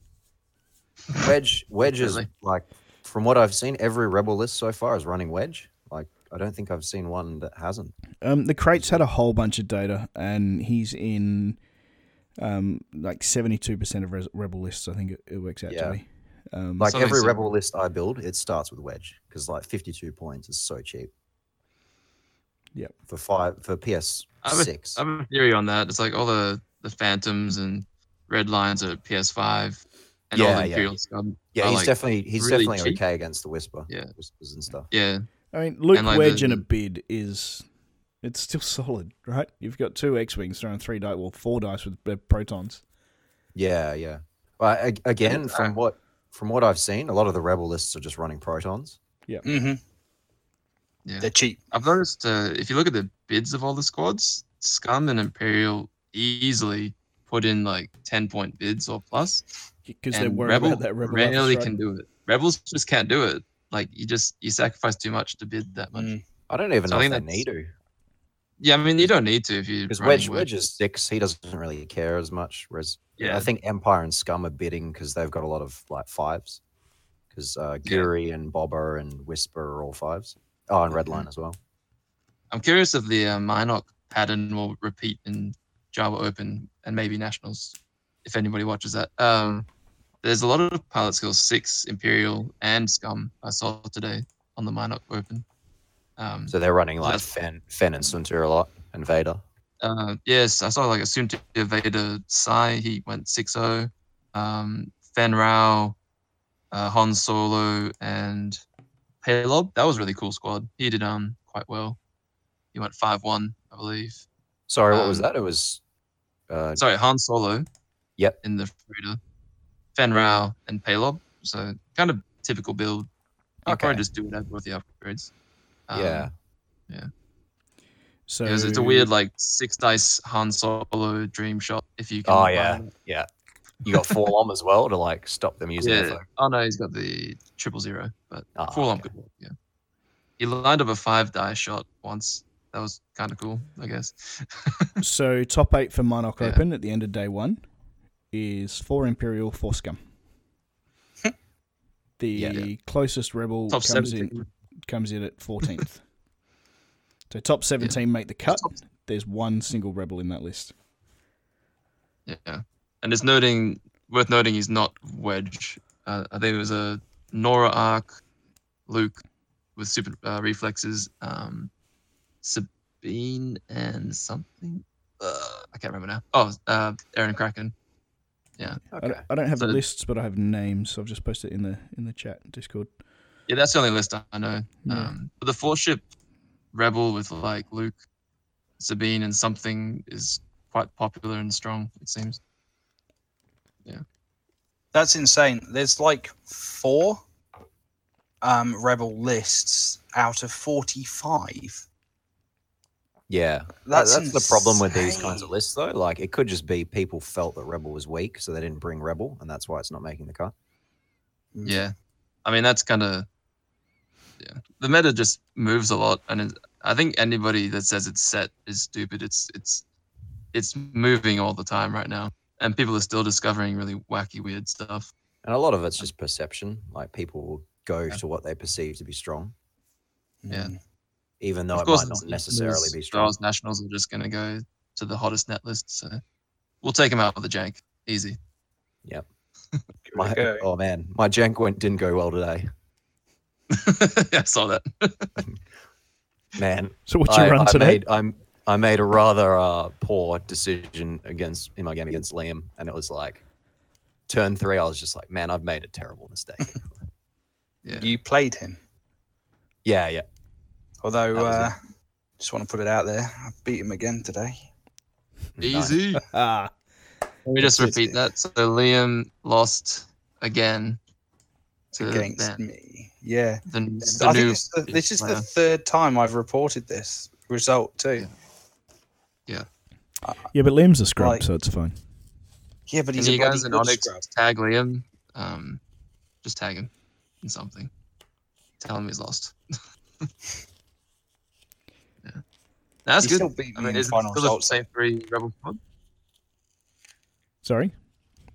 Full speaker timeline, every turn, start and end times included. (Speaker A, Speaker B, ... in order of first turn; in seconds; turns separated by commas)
Speaker A: 1.2-7.9, Speaker B: 1.9-2.2, Speaker C: 8.2-11.6, Speaker A: 8.7-9.0, Speaker C: 12.4-16.9, Speaker A: 15.7-16.0, Speaker A: 16.8-21.1, Speaker B: 16.8-17.5, Speaker A: 23.1-25.0, Speaker B: 24.4-33.0, Speaker A: 30.3-30.9, Speaker A: 31.5-34.9, Speaker B: 34.9-35.2, Speaker C: 35.5-37.7, Speaker B: 35.9-36.6, Speaker C: 38.2-42.8, Speaker A: 43.5-49.0, Speaker B: 45.2-45.7, Speaker D: 49.5-49.8, Speaker B: 51.0-59.4, Speaker D: 51.2-51.7, Speaker C: 59.9-61.7, Speaker B: 60.1-66.1, Speaker D: 66.0-66.2, Speaker A: 66.5-67.7, Speaker B: 66.9-67.4, Speaker B: 68.6-70.5, Speaker A: 69.9-76.6, Speaker B: 73.2-73.5, Speaker A: 77.3-81.6, Speaker B: 82.5-89.7, Speaker B: 90.2-95.4, Speaker B: 96.2-97.2, Speaker A: 96.5-99.4, Speaker B: 99.8-106.0, Speaker B: 106.7-108.6, Speaker B: 109.2-112.0, Speaker B: 112.7-114.2, Speaker A: 114.7-115.8, Speaker B: 114.9-115.3, Speaker A: 116.5-116.8, Speaker B: 116.8-117.7, Speaker B: 118.4-119.2, Speaker B: 119.9-123.1, Speaker B: 123.7-125.3, Speaker A: 123.7-124.0, Speaker B: 125.9-126.3, Speaker A: 125.9-126.3, Speaker C: 128.3-129.1, Speaker B: 128.4-132.9, Speaker A: 132.2-133.3, Speaker A: 133.8-136.2, Speaker B: 133.9-134.2, Speaker B: 135.8-139.5, Speaker A: 138.6-139.1, Speaker B: 140.4-144.9, Speaker C: 145.0-147.6, Speaker C: 148.3-150.0, Speaker C: 152.2-156.0, Speaker A: 152.3-152.7, Speaker B: 153.7-154.4, Speaker C: 157.3-160.7, Speaker B: 158.5-158.7, Speaker B: 162.2-168.2, Speaker B: 168.9-169.2, Speaker B: 169.8-171.7, Speaker B: 172.4-177.7, Speaker A: 178.9-179.2, Speaker C: 179.0-182.9, Speaker B: 183.5-186.0, Speaker C: 184.8-185.1, Speaker B: 186.7-188.0, Speaker B: 188.8-192.4, Speaker D: 194.9-197.2, Speaker D: 198.4-201.8, Speaker A: 203.3-210.5, Speaker D: 203.9-205.5, Speaker D: 211.5-211.8, Speaker B: 211.6-211.9, Speaker B: 212.4-213.3, Speaker B: 214.4-219.8, Speaker B: 220.5-225.1, Speaker A: 225.4-229.5, Speaker D: 230.4-230.8, Speaker A: 231.4-233.3, Speaker B: 231.7-236.2, Speaker B: 236.8-238.4, Speaker D: 240.1-240.6, Speaker A: 240.1-242.7, Speaker B: 243.7-245.3, Speaker A: 246.6-253.4, Speaker C: 247.1-248.0, Speaker A: 254.3-256.8, Speaker B: 257.8-258.1, Speaker D: 258.0-258.8, Speaker A: 259.8-260.2, Speaker D: 261.0-261.8, Speaker A: 261.3-261.7, Speaker D: 262.4-264.6, Speaker A: 265.6-266.0, Speaker B: 265.6-266.2, Speaker C: 266.3-266.7, Speaker B: 267.4-271.0, Speaker D: 267.6-268.2, Speaker D: 271.9-278.3, Speaker B: 271.9-272.6, Speaker B: 273.7-275.4, Speaker C: 280.5-282.0, Speaker D: 281.2-281.4, Speaker D: 282.9-284.2, Speaker B: 283.1-285.8, Speaker B: 286.4-286.9, Speaker B: 287.4-287.9, Speaker B: 288.8-289.5, Speaker B: 293.1-295.8, Speaker D: 293.2-294.7, Speaker C: 297.6-297.9